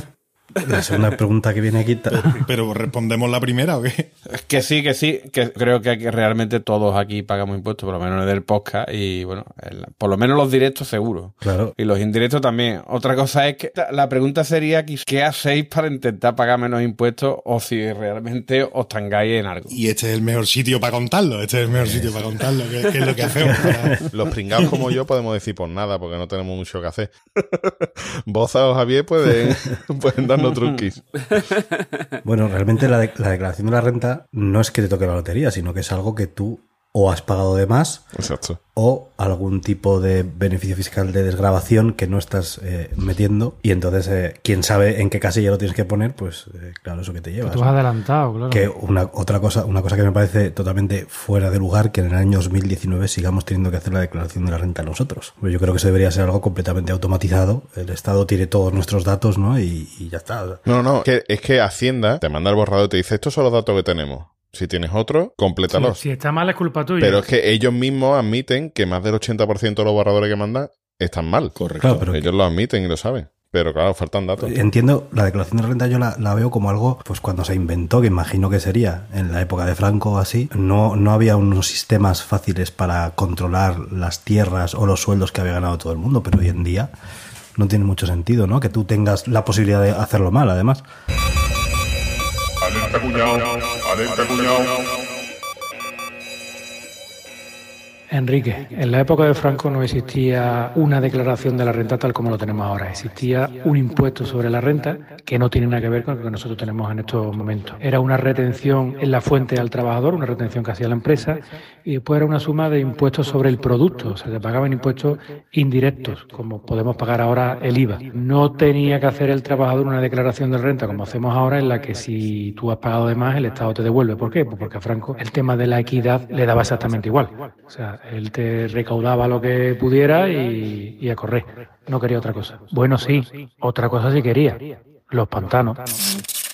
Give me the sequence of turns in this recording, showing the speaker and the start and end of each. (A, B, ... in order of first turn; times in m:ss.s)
0:00.6-0:02.4 A
0:02.1-0:04.1 B
0:04.3-0:19.8 C
0:11.4-0:11.7 A
0:19.7-0:24.1 B
0:23.4-0:24.0 A
0:24.1-0:31.0 D
0:32.2-0:38.1 A
0:38.2-0:38.6 D
0:38.8-0:47.8 A
0:47.4-0:48.7 E
0:48.5-1:00.6 A
1:00.7-1:06.0 D
1:05.7-1:07.3 E
1:07.0-1:14.6 D
1:11.6-1:12.1 B
1:11.8-1:12.3 A
1:14.4-1:26.9 A
1:27.6-1:30.8 A
1:38.1-2:16.0 E